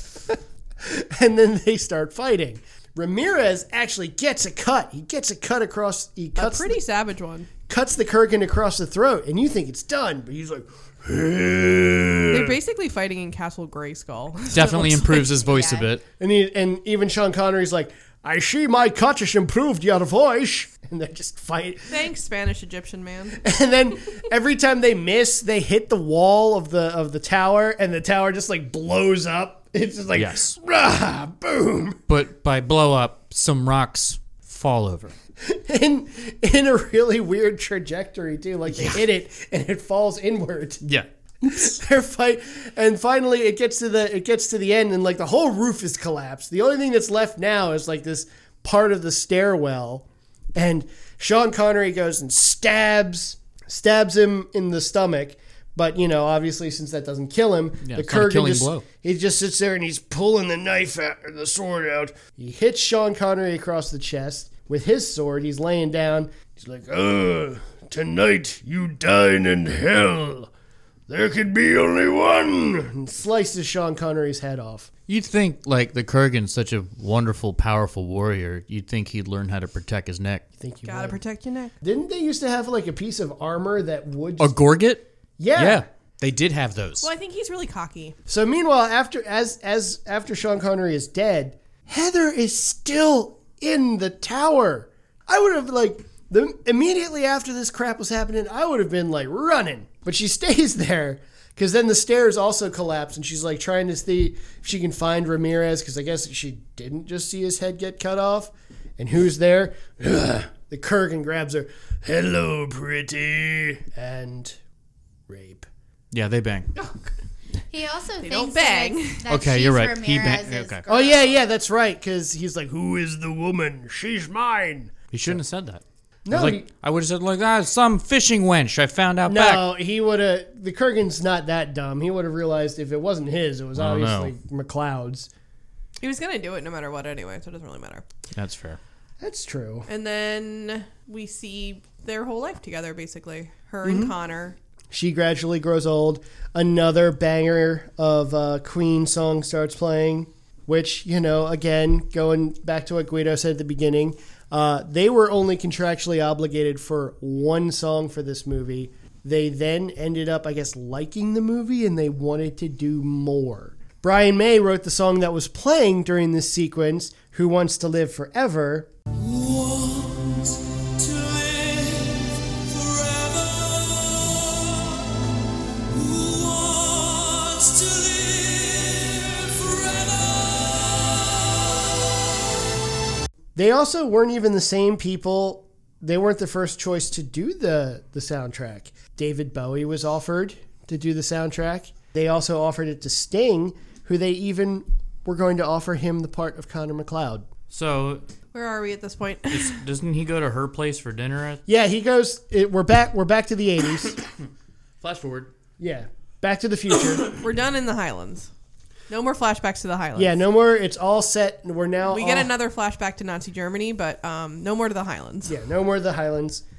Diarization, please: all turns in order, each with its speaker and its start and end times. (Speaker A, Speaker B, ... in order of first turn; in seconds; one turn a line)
Speaker A: 0.8-6.8
Speaker B: 6.4-7.5
Speaker A: 7.7-12.6
Speaker B: 12.3-15.3
Speaker C: 14.5-16.0
Speaker D: 15.4-15.9
Speaker A: 16.2-22.1
Speaker B: 21.9-23.4
Speaker A: 23.4-32.0
Speaker C: 30.1-30.6
Speaker C: 32.1-35.1
Speaker A: 35.4-40.9
Speaker C: 40.8-41.8
Speaker A: 41.4-70.5
Speaker C: 57.8-58.9
Speaker A: 71.1-74.9
Speaker C: 75.1-80.5
Speaker A: 80.6-81.2
Speaker B: 80.9-81.8
Speaker A: 81.8-84.6
Speaker C: 84.4-87.1
Speaker A: 85.4-85.9
Speaker B: 87.0-88.2
Speaker A: 88.3-114.6
Speaker A: 115.3-115.7
Speaker C: 116.1-116.7
Speaker D: 117.7-121.5
Speaker B: 118.2-119.3
Speaker C: 119.3-120.8
Speaker A: 120.9-125.4
Speaker C: 125.1-129.7
Speaker A: 126.3-126.7
Speaker A: 129.3-135.3
Speaker C: 133.8-134.3
Speaker B: 136.0-138.1
Speaker C: 138.3-138.8
Speaker A: 139.2-139.9
Speaker B: 139.9-144.6
Speaker A: 143.8-144.1
Speaker A: 144.9-168.9
Speaker C: 169.2-170.4
Speaker C: 171.0-172.1
Speaker C: 172.7-173.9
Speaker C: 175.9-180.2
Speaker A: 183.6-197.5
Speaker C: 197.7-198.2
Speaker B: 198.5-199.8
Speaker C: 199.5-201.6
Speaker A: 201.7-204.2
Speaker C: 205.0-205.5
Speaker A: 205.8-207.3
Speaker B: 207.4-208.5
Speaker B: 209.1-210.4
Speaker A: 210.2-212.5
Speaker B: 212.1-215.6
Speaker A: 215.4-216.6